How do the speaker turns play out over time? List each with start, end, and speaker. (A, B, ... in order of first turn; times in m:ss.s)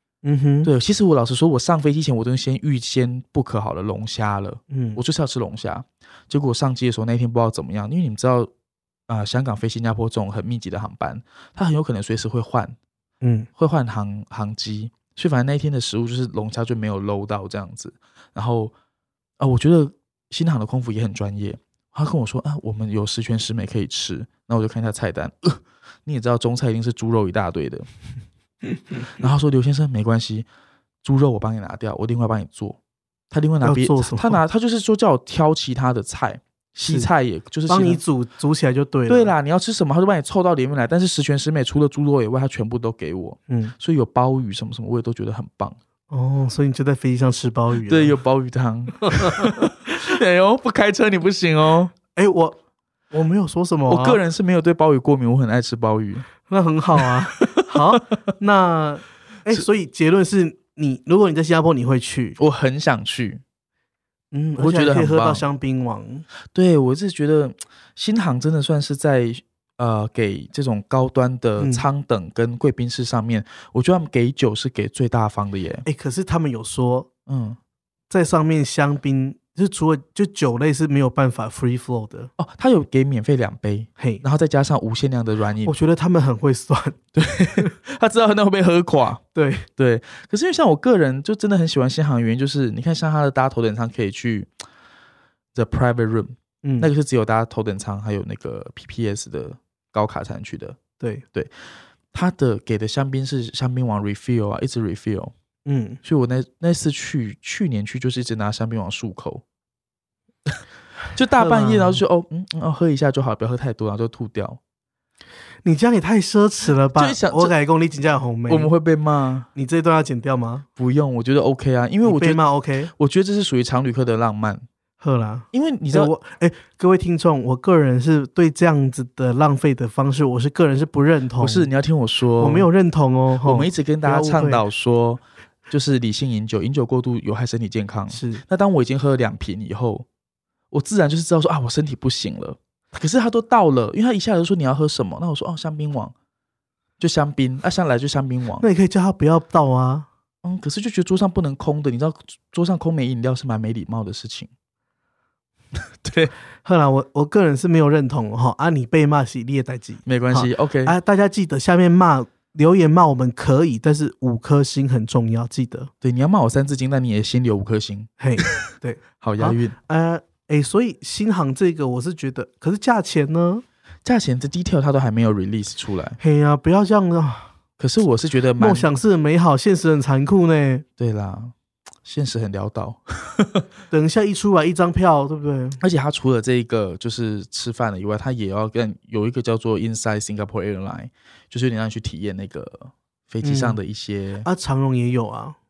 0:00.2-0:00.7 A
0:00.6-0:08.5 B
0:04.7-0:05.0 A
0:09.1-0:12.8 B
0:13.2-0:13.5 A
0:13.6-0:18.7 B
0:19.4-0:27.9 B
0:29.1-0:30.5 B
0:31.0-0:32.8 B
0:33.3-0:38.0 B
0:33.6-0:34.4 A
0:36.8-0:37.1 A
0:37.7-0:39.3 A
0:39.1-0:45.8 B
0:43.5-0:43.7 A
0:46.1-0:48.2 A
0:47.8-0:51.9 B
0:49.1-0:49.5 A
0:52.1-0:52.6 A
0:53.1-0:54.2 A
0:53.9-0:56.3 B
0:56.5-1:02.4 A
0:57.4-0:57.8 B
1:02.4-1:03.4 B
1:04.3-1:06.2 A
1:04.6-1:05.4 B
1:06.5-1:15.8 B
1:11.6-1:11.8 A
1:15.8-1:17.1 A
1:17.3-1:17.6 B
1:18.1-1:22.3 A
1:22.4-1:25.7 B
1:24.0-1:24.2 A
1:25.6-1:27.0 A
1:27.1-1:29.2 B
1:29.3-1:29.7 A
1:29.8-1:34.5 B
1:35.5-1:40.8 B
1:36.6-1:36.9 A
1:42.1-1:45.3 B
1:45.6-1:46.0 A
1:46.0-1:49.4 B
1:51.1-1:54.6 B
1:51.4-1:52.0 A
1:55.6-1:58.7 A
1:56.9-1:57.5 B
1:58.5-1:59.5 B
1:59.5-2:00.6 A
2:00.8-2:02.4 B
2:02.0-2:02.9 A
2:02.9-2:04.6 B
2:05.0-2:11.7 A
2:05.5-2:06.1 B
2:11.4-2:12.7 B
2:12.4-2:14.6 A
2:13.4-2:20.0 B
2:18.1-2:18.4 A
2:20.7-2:26.1 B
2:27.0-2:28.6 B
2:28.6-2:30.1 A
2:30.4-2:34.5 B
2:36.0-2:36.3 B
2:36.6-2:45.9 A
2:40.0-2:41.0 B
2:46.0-2:48.6 B
2:48.2-2:53.6 A
2:49.2-2:49.8 B
2:54.0-2:56.2 B
2:56.2-2:57.5 A
2:57.8-2:58.9 B
2:58.6-3:00.8 A
3:01.0-3:01.5 B
3:02.0-3:03.6 B
3:03.9-3:05.8 A
3:05.8-3:14.5 B
3:13.4-3:13.8 A
3:14.4-3:15.6 A